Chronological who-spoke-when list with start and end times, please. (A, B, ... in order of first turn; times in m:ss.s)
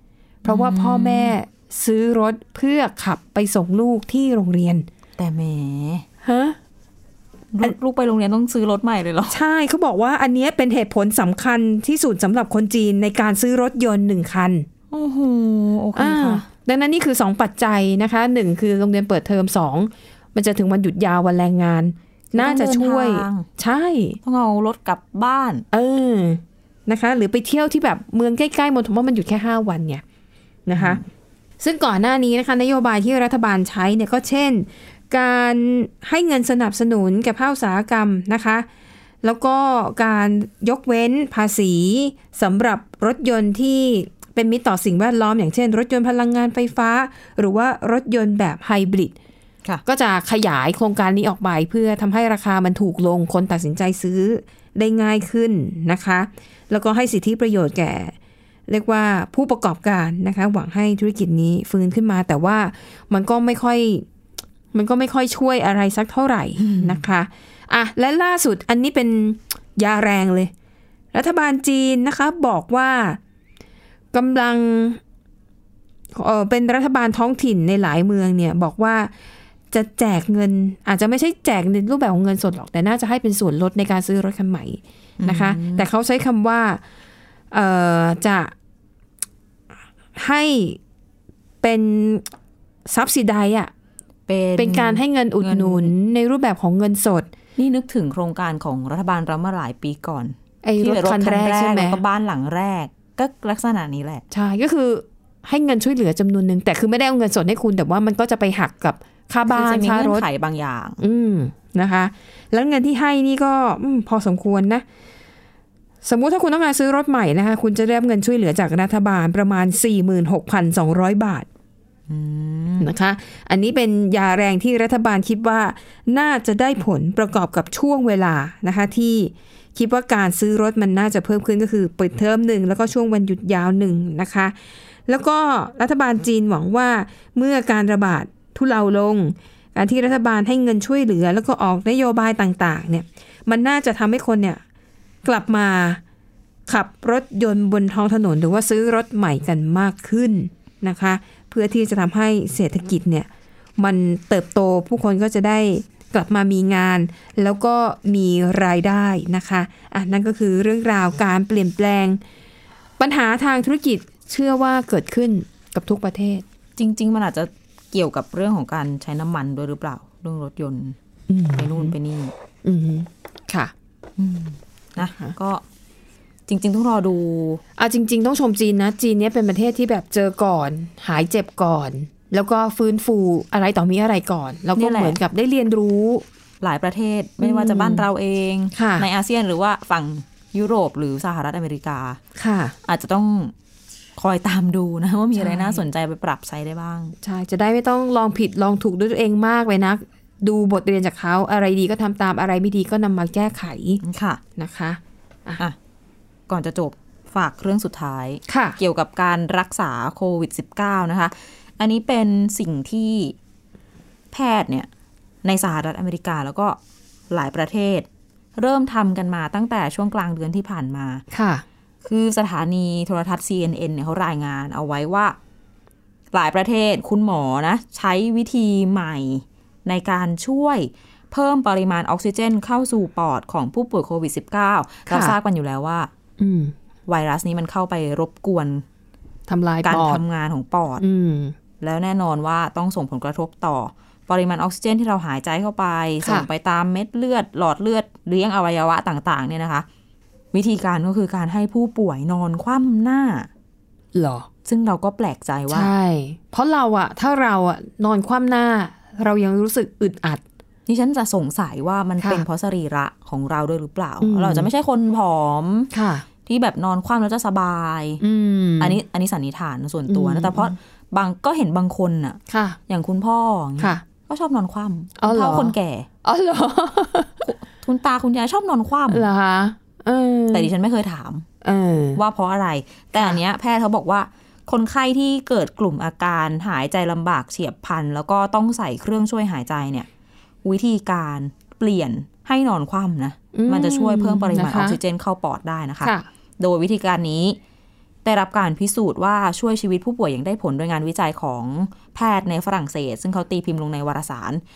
0:00.4-0:04.9 A
0:00.4-0:01.4 B
0:05.2-0:06.0 B
0:06.2-0:06.6 A
0:07.5-0:09.4 B
0:09.3-0:14.7 A
0:14.9-0:16.4 B
0:16.0-0:24.2 A
0:22.3-0:23.5 B
0:24.2-0:25.6 B
0:25.7-0:30.0 A
0:30.7-0:31.0 A
0:31.6-0:38.7 A
0:39.2-0:49.2 A
0:49.9-0:58.2 A
0:58.7-1:04.0 A
1:04.7-1:10.5 A
1:06.6-1:07.0 B
1:11.1-1:13.2 A
1:14.1-1:15.0 A
1:16.2-1:19.1 A
1:19.7-1:26.8 A
1:25.2-1:25.9 B
1:27.5-1:28.5 A
1:30.2-1:30.8 A
1:31.6-1:32.3 A
1:32.9-1:33.7 A
1:34.3-1:35.9 B
1:34.6-1:37.3 A
1:37.6-1:44.2 B
1:40.6-1:42.0 A
1:44.3-1:50.3 A
1:49.5-1:51.0 B
1:51.0-1:54.8 A
1:56.0-2:01.5 A
2:02.1-2:02.9 B
2:02.8-2:14.6 A
2:15.1-2:24.6 A
2:25.2-2:26.0 A
2:26.7-2:42.2 A
2:43.0-2:46.4 A
2:46.8-2:51.0 B
2:51.3-2:52.0 A
2:51.6-2:52.3 B
2:52.6-2:53.7 A
2:54.2-2:55.6 B
2:55.0-2:55.3 A
2:56.5-2:57.6 B
2:57.8-3:06.2 A
3:04.8-3:05.2 B
3:06.6-3:12.2 B
3:07.4-3:08.1 A
3:08.8-3:09.1 A
3:12.4-3:12.8 A
3:12.9-3:13.5 B
3:14.2-3:17.2 B
3:15.4-3:15.8 A
3:17.2-3:24.0 A
3:24.0-3:24.4 B
3:24.6-3:25.6 A
3:26.5-3:33.4 B
3:28.5-3:28.8 A
3:34.3-3:34.9 B
3:35.4-3:36.8 B
3:37.3-3:41.2 B
3:41.3-3:41.6 A
3:42.0-3:45.4 B
3:46.3-3:56.1 B
3:55.1-3:55.4 A
3:56.4-3:56.7 A
3:57.1-3:58.8 B
3:59.5-4:00.2 A
3:59.8-4:01.0 B
4:01.0-4:01.6 A
4:01.8-4:09.9 B
4:10.5-4:13.5 B
4:14.1-4:14.5 A
4:14.7-4:15.9 B
4:15.7-4:20.4 A
4:20.9-4:25.9 B
4:24.2-4:24.7 A
4:25.9-4:26.3 A
4:26.5-4:28.2 B
4:28.2-4:29.0 A
4:28.8-4:36.1 B
4:30.1-4:30.8 A
4:32.5-4:32.8 A
4:35.2-4:37.4 A
4:37.4-4:39.2 B
4:39.1-4:40.7 A
4:40.5-4:41.5 B
4:41.6-4:42.2 A
4:42.2-4:50.1 B
4:50.6-4:57.6 B
4:53.5-4:55.0 A
4:58.2-5:04.6 B